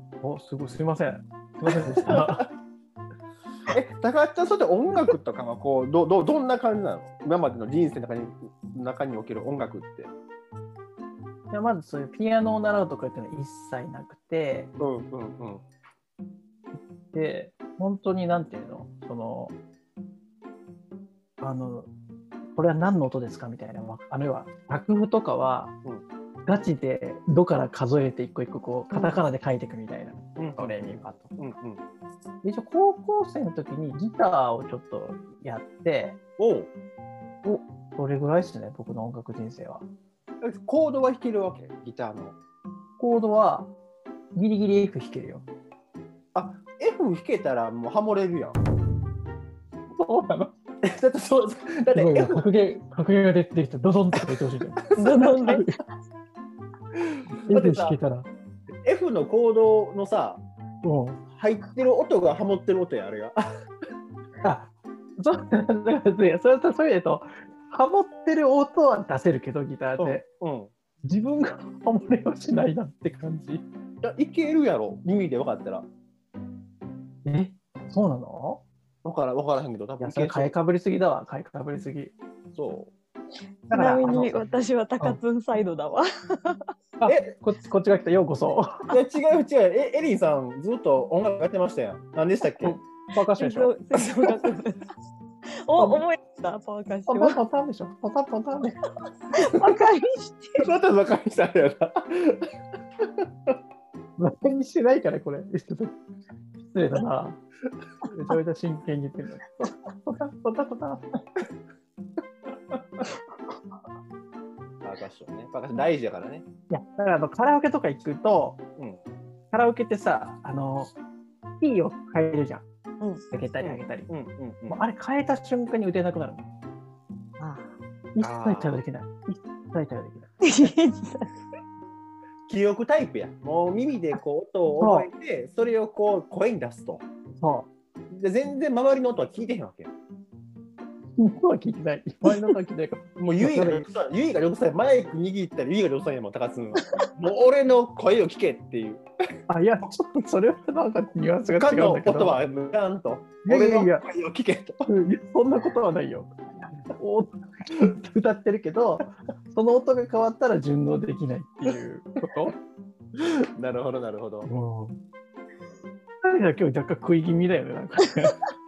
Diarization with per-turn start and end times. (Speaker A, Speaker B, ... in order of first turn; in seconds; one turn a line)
Speaker A: 0.2-2.5
Speaker B: 1.7-2.5
Speaker B: 3.7-10.1
Speaker A: 11.5-14.7
Speaker B: 14.8-15.6
Speaker A: 16.7-19.5
Speaker A: 21.4-21.9
Speaker A: 22.6-25.7
Speaker A: 26.4-31.3
Speaker C: 28.9-29.2
Speaker B: 30.4-31.8
Speaker A: 32.4-36.2
Speaker B: 36.4-36.7
Speaker A: 38.0-39.9
Speaker B: 40.4-42.4
Speaker A: 43.0-43.7
Speaker A: 44.4-45.5
Speaker B: 46.3-48.6
Speaker A: 49.9-50.5
Speaker B: 50.8-52.5
Speaker A: 51.9-55.7
Speaker B: 54.2-54.5
Speaker C: 55.0-55.6
Speaker B: 57.4-58.0
Speaker A: 57.4-58.3
Speaker B: 58.8-60.4
Speaker A: 60.8-61.2
Speaker B: 61.3-63.4
Speaker A: 64.4-70.2
Speaker B: 70.0-70.7
Speaker A: 71.0-73.6
Speaker B: 74.0-75.9
Speaker A: 77.2-78.6
Speaker B: 79.0-80.5
Speaker A: 80.0-82.1
Speaker B: 82.5-82.9
Speaker A: 83.7-84.4
Speaker C: 83.7-86.7
Speaker A: 87.0-89.0
Speaker B: 87.0-87.3
Speaker B: 88.9-92.8
Speaker A: 92.6-93.7
Speaker C: 93.4-94.8
Speaker C: 95.6-97.4
Speaker A: 95.8-96.0
Speaker A: 97.1-98.8
Speaker C: 99.3-100.7
Speaker B: 100.6-102.4
Speaker A: 104.2-106.0
Speaker A: 106.6-107.4
Speaker A: 108.0-111.2
Speaker B: 114.8-116.5
Speaker A: 116.7-118.6
Speaker A: 119.5-120.9
Speaker A: 121.6-122.6
Speaker A: 123.3-124.1
Speaker B: 123.6-124.8
Speaker A: 124.7-126.5
Speaker C: 127.4-127.7
Speaker A: 128.1-130.3
Speaker B: 128.2-128.8
Speaker C: 130.4-131.3
Speaker B: 132.5-137.0
Speaker A: 134.8-135.1
Speaker A: 137.4-137.7
Speaker B: 138.1-139.9
Speaker A: 141.2-143.8
Speaker B: 143.2-149.0
Speaker A: 149.5-152.4
Speaker B: 151.5-154.8
Speaker A: 153.4-154.0
Speaker A: 154.9-156.3
Speaker A: 156.9-162.5
Speaker B: 163.2-164.5
Speaker A: 164.4-165.0
Speaker A: 166.2-168.4